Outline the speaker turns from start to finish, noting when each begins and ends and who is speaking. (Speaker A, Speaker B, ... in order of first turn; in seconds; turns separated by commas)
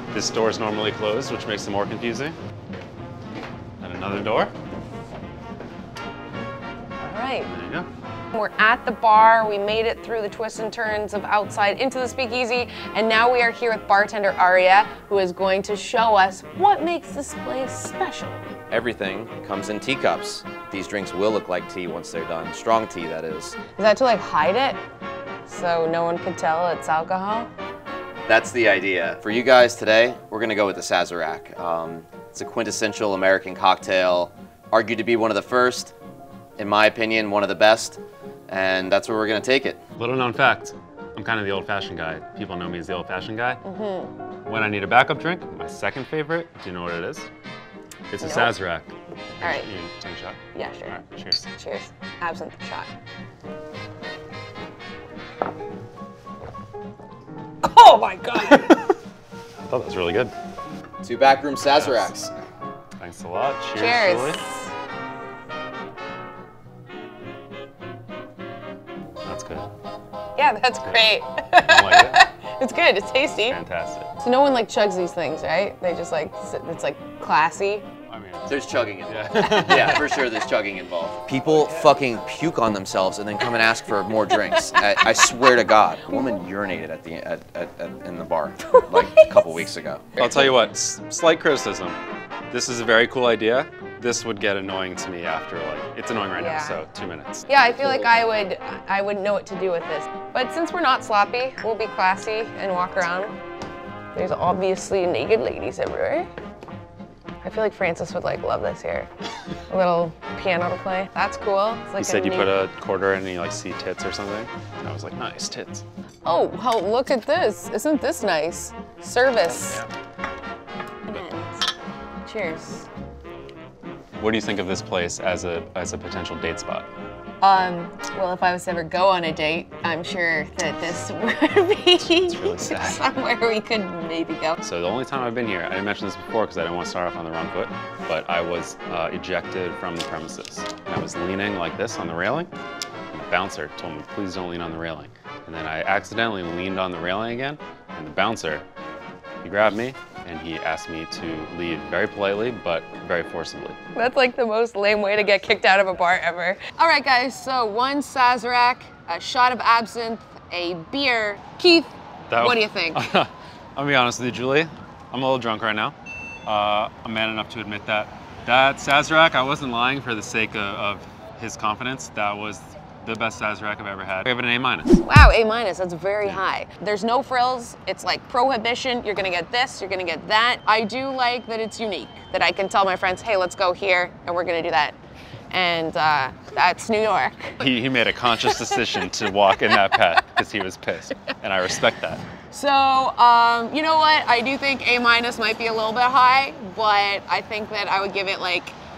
Speaker A: 0.1-2.4, Speaker A: 3.8-4.5, Speaker B: 7.0-7.5, Speaker A: 7.5-7.9, Speaker B: 8.3-18.5, Speaker C: 18.7-23.6, Speaker B: 23.7-24.8, Speaker B: 25.4-27.5, Speaker C: 28.3-35.9, Speaker C: 36.6-39.8, Speaker A: 40.0-43.6, Speaker B: 43.6-44.1, Speaker A: 44.5-47.3, Speaker A: 48.1-51.5, Speaker B: 48.2-48.5, Speaker B: 49.4-49.7, Speaker B: 50.5-51.0, Speaker B: 51.5-52.9, Speaker B: 57.6-58.7, Speaker A: 58.5-58.9, Speaker A: 59.6-60.3, Speaker C: 61.0-62.3, Speaker A: 61.7-62.3, Speaker A: 63.0-64.4, Speaker B: 63.7-64.7, Speaker A: 69.2-69.7, Speaker B: 70.3-73.6, Speaker A: 70.8-72.2, Speaker A: 73.5-74.1, Speaker B: 74.2-77.9, Speaker A: 78.1-80.2, Speaker C: 78.5-90.1, Speaker B: 84.3-84.9, Speaker B: 88.7-89.6, Speaker A: 90.2-92.0, Speaker B: 90.2-90.5, Speaker A: 92.5-98.1, Speaker B: 96.3-96.8, Speaker B: 97.5-103.3, Speaker B: 104.1-106.3, Speaker B: 107.4-109.1, Speaker B: 109.7-112.5, Speaker A: 112.0-115.8, Speaker B: 116.2-119.8, Speaker A: 119.5-119.9, Speaker B: 121.0-121.7, Speaker B: 122.2-122.9, Speaker A: 124.2-126.9, Speaker B: 127.4-134.6, Speaker A: 132.1-133.0, Speaker A: 134.6-142.5, Speaker A: 143.1-148.6, Speaker A: 149.4-153.8, Speaker B: 153.9-163.0, Speaker A: 162.3-175.0, Speaker B: 175.0-185.0, Speaker B: 185.5-187.7, Speaker A: 187.6-192.2, Speaker B: 188.4-189.1, Speaker B: 192.5-198.8